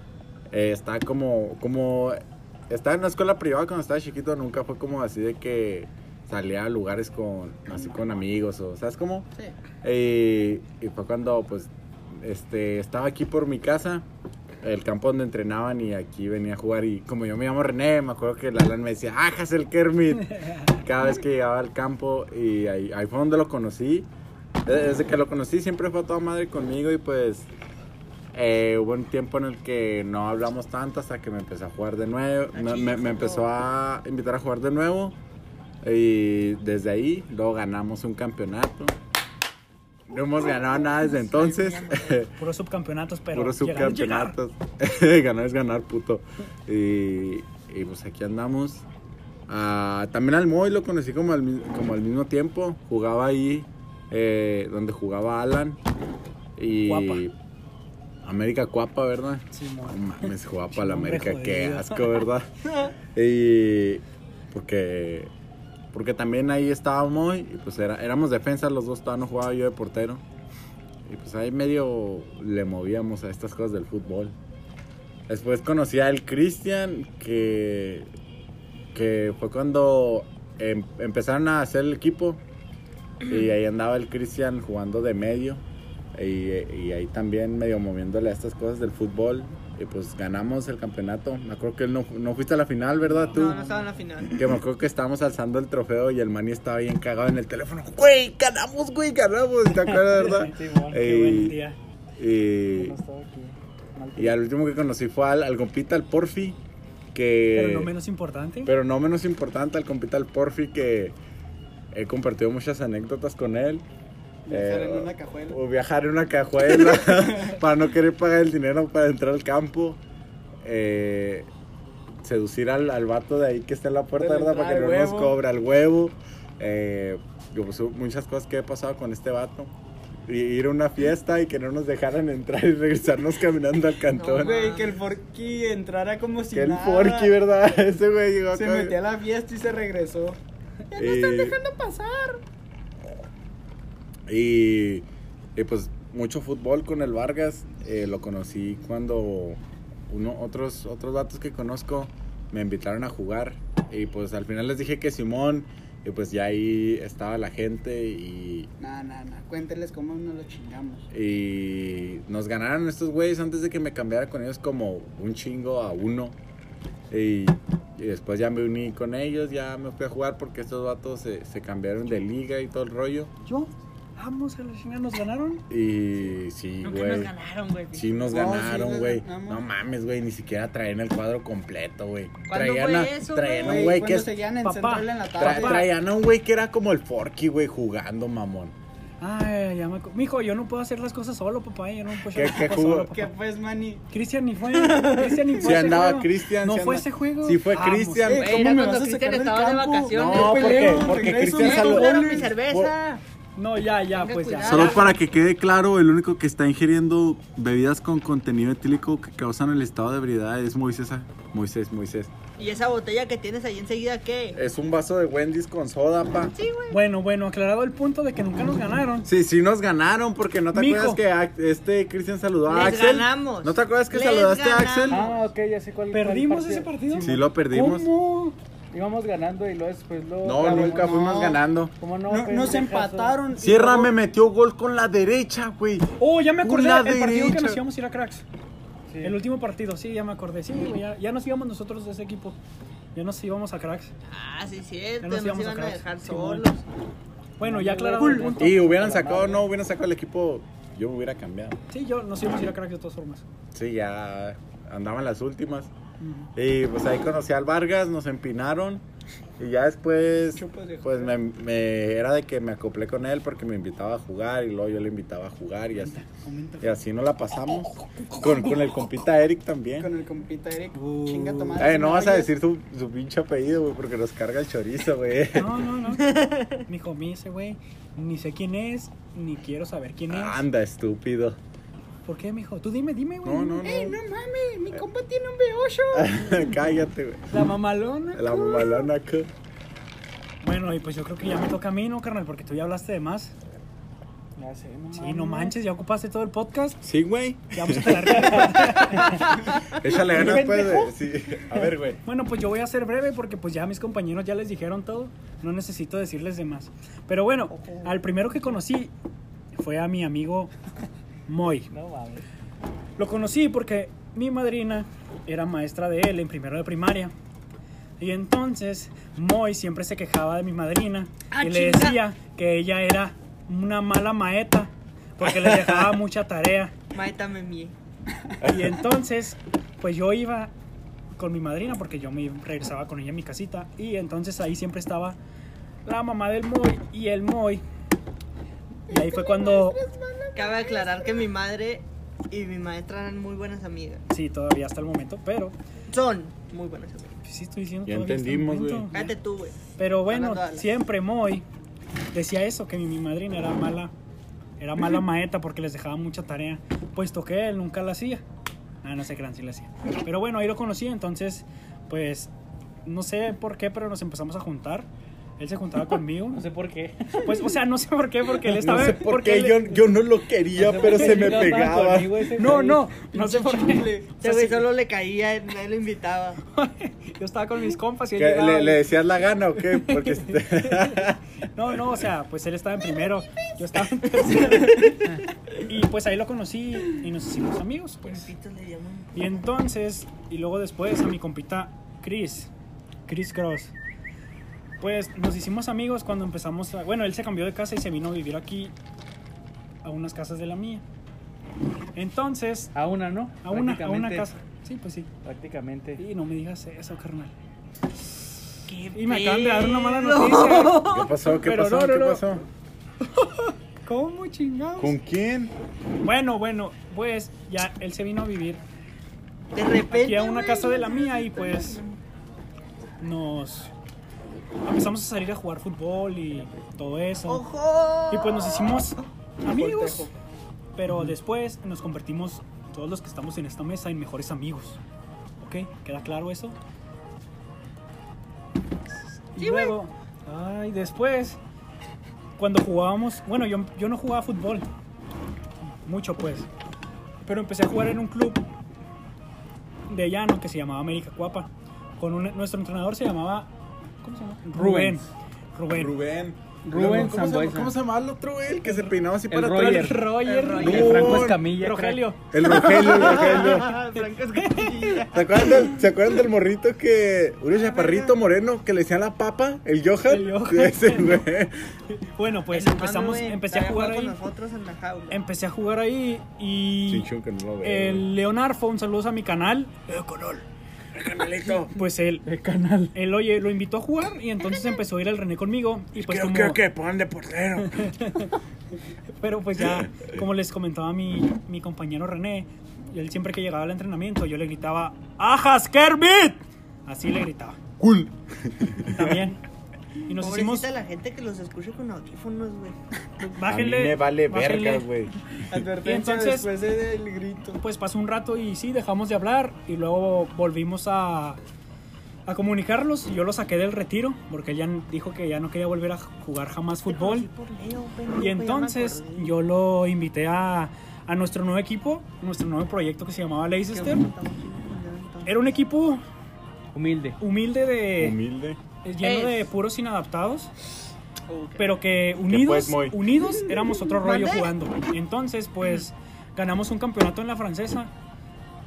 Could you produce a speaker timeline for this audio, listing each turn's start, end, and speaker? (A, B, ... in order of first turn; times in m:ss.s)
0:00.5-0:09.3 A
0:09.8-0:14.1 A
0:14.6-0:24.1 A
0:20.2-0:20.8 B
0:24.7-0:27.5 A
0:28.3-0:35.2 A
0:32.5-0:33.5 C
0:35.8-0:39.0 A
0:40.1-0:42.3 A
0:40.4-0:42.3 C
0:42.4-0:44.4 B
0:43.3-0:48.8 A
0:49.5-0:55.8 A
0:56.6-0:57.3 A
0:56.8-0:57.2 B
0:58.2-1:02.5 A
0:59.5-1:02.1 B
1:03.1-1:05.3 A
1:05.9-1:10.2 A
1:11.1-1:14.4 A
1:15.3-1:18.1 A
1:18.9-1:22.4 A
1:23.3-1:25.6 A
1:26.2-1:33.6 A
1:33.0-1:34.0 D
1:33.2-1:33.5 B
1:33.3-1:34.4 C
1:34.3-1:41.6 A
1:39.8-1:41.8 B
1:40.2-1:41.0 D
1:42.2-1:43.0 A
1:42.7-1:44.4 D
1:44.2-1:46.6 A
1:47.1-1:47.9 A
1:47.5-1:48.7 B
1:48.6-1:51.2 A
1:51.9-1:53.9 A
1:54.5-1:55.6 E
1:54.5-2:00.0 A
1:56.7-1:57.5 E
2:00.6-2:01.5 A
2:02.2-2:09.7 A
2:04.2-2:05.4 E
2:10.3-2:14.7 A
2:14.1-2:15.0 C
2:14.4-2:17.4 E
2:16.5-2:19.0 A
2:18.5-2:20.4 E
2:20.9-2:22.4 E
2:21.0-2:21.6 A
2:24.3-2:38.7 A
2:38.8-2:41.0 E
2:41.1-2:46.4 A
2:47.1-2:53.3 A
2:53.4-2:55.6 B
2:55.7-2:57.3 A
2:56.8-2:58.6 C
2:57.9-3:04.3 A
2:58.3-2:59.6 E
3:02.5-3:03.9 C
3:03.6-3:05.9 E
3:04.6-3:05.9 B
3:05.4-3:08.8 A
3:09.2-3:13.3 B
3:12.3-3:13.1 A
3:13.1-3:14.0 E
3:14.1-3:18.4 B
3:14.6-3:15.8 C
3:15.6-3:18.6 A
3:18.3-3:22.5 E
3:18.3-3:23.2 C
3:20.1-3:23.0 A
3:20.7-3:21.1 B
3:21.8-3:22.3 B
3:23.6-3:25.1 B
3:24.1-3:25.2 C
3:24.6-3:32.3 A
3:32.6-3:34.6 C
3:34.5-3:36.6 A
3:36.6-3:37.0 C
3:36.9-3:39.3 B
3:39.2-3:45.2 A
3:40.7-3:41.2 B
3:42.7-3:45.4 C
3:45.1-3:47.4 D
3:46.1-3:48.6 B
3:47.2-3:48.1 A
3:48.9-3:51.3 D
3:50.4-3:51.9 A
3:50.6-3:51.6 E
3:52.0-3:53.4 D
3:52.3-3:54.2 E
3:53.6-3:57.8 A
3:56.2-3:58.4 B
3:59.1-3:59.4 D
3:59.2-4:02.6 B
4:03.2-4:04.1 B
4:04.3-4:06.8 C
4:05.2-4:06.7 B
4:07.6-4:08.7 B
4:07.6-4:09.7 D
4:08.6-4:11.8 A
4:11.9-4:13.4 B
4:13.7-4:15.9 A
4:16.2-4:16.5 B
4:16.6-4:19.0 A
4:19.6-4:26.2 A
4:20.5-4:21.4 E
4:26.0-4:27.0 B
4:26.8-4:30.1 A
4:27.7-4:29.1 B
4:30.0-4:32.5 E
4:30.9-4:31.9 B
4:31.8-4:35.7 A
4:35.5-4:40.6 B
4:36.1-4:36.8 C
4:40.3-4:41.6 A
4:42.2-4:43.8 B
4:43.4-4:44.2 A
4:43.8-4:46.3 E
4:46.1-4:47.5 A
4:47.5-4:48.5 B
4:48.3-4:49.5 A
4:48.5-4:49.1 E
4:50.6-4:53.6 B
4:54.6-4:55.8 D
4:55.1-4:57.0 B
4:57.0-4:58.5 A
4:57.7-4:59.7 B
5:00.0-5:02.2 A
5:00.3-5:01.1 B
5:02.2-5:09.1 B
5:07.7-5:08.4 C
5:09.8-5:10.7 B
5:11.5-5:11.9 B
5:11.9-5:12.4 D
5:13.2-5:17.3 B
5:18.2-5:27.0 B
5:21.5-5:22.2 C
5:25.4-5:26.2 A
5:27.1-5:28.0 C
5:28.6-5:29.0 A
5:28.6-5:30.7 B
5:31.4-5:35.4 B
5:36.0-5:37.8 B
5:39.1-5:41.5 E
5:39.1-5:40.0 B
5:40.5-5:44.2 C
5:44.3-5:45.8 B
5:46.1-5:47.4 C
5:47.4-5:49.3 B
5:48.1-5:49.1 A
5:49.1-5:50.9 C
5:50.0-5:51.6 B
5:52.3-5:54.1 B
5:54.8-5:58.4 B
5:59.0-6:02.5 B
6:03.0-6:05.1 B
6:05.6-6:06.6 B
6:06.5-6:07.6 D
6:07.5-6:10.0 B
6:08.8-6:12.3 A
6:10.7-6:13.1 D
6:11.0-6:11.7 B
6:12.5-6:14.8 B
6:13.3-6:14.3 E
6:14.4-6:16.6 C
6:16.7-6:19.0 B
6:18.4-6:21.4 A
6:19.8-6:21.2 B
6:21.8-6:25.3 B
6:24.4-6:25.1 C
6:25.8-6:28.5 B
6:28.2-6:29.6 C
6:29.4-6:32.7 B
6:33.3-6:33.9 B
6:35.0-6:38.9 B
6:40.0-6:41.0 B
6:42.2-6:42.9 B
6:42.9-6:44.5 D
6:43.6-6:45.3 B
6:45.4-6:46.2 D
6:46.2-6:47.5 B
6:48.9-6:52.4 B
6:49.2-6:51.4 C
6:51.1-6:52.6 A
6:53.3-6:55.2 B
6:55.0-6:55.7 A
6:56.2-6:58.8 B
6:59.7-7:02.2 C
6:59.9-7:02.0 B
7:03.2-7:03.9 B
7:04.9-7:07.7 B
7:07.5-7:09.3 C
7:08.3-7:10.3 B
7:09.7-7:10.3 E
7:11.0-7:15.0 B
7:15.6-7:16.8 B
7:19.2-7:21.6 B
7:19.6-7:19.9 C
7:22.6-7:24.8 B
7:26.0-7:26.7 B
7:27.4-7:28.6 B
7:30.1-7:33.7 B
7:34.2-7:36.1 B
7:34.7-7:35.3 D
7:35.9-7:40.0 A
7:36.8-7:38.0 D
7:39.5-7:40.2 D
7:39.7-7:42.4 B
7:40.4-7:41.4 C
7:40.8-7:41.6 A
7:40.8-7:42.3 D
7:42.5-7:44.0 A
7:42.6-7:45.9 C
7:45.3-7:51.8 A
7:47.7-7:48.4 C
7:50.3-7:51.4 B
7:52.1-7:54.4 B
7:52.7-7:55.4 C
7:55.3-7:57.3 B
7:57.1-7:58.3 A
7:57.8-8:00.3 B
8:00.3-8:00.6 A
8:01.2-8:01.9 A
8:01.9-8:02.4 B
8:02.4-8:03.2 D
8:03.1-8:06.8 B
8:06.2-8:08.0 A
8:07.8-8:08.6 B
8:09.4-8:17.8 B
8:18.0-8:19.4 A
8:19.1-8:19.6 B
8:20.3-8:20.9 B
8:20.4-8:23.0 C
8:23.4-8:25.1 B
8:23.6-8:25.3 A
8:25.7-8:27.8 E
8:25.9-8:26.7 B
8:27.8-8:31.6 B
8:32.5-8:37.5 B
8:37.1-8:39.6 C
8:38.4-8:44.2 B
8:43.9-8:45.6 C
8:45.5-8:46.2 B
8:46.9-8:47.4 D
8:47.4-8:48.4 B
8:48.2-8:48.8 A
8:49.0-8:50.7 B
8:49.2-8:49.7 C
8:51.5-8:52.0 C
8:51.8-8:58.1 B
8:52.5-8:53.2 A
8:54.2-8:54.7 C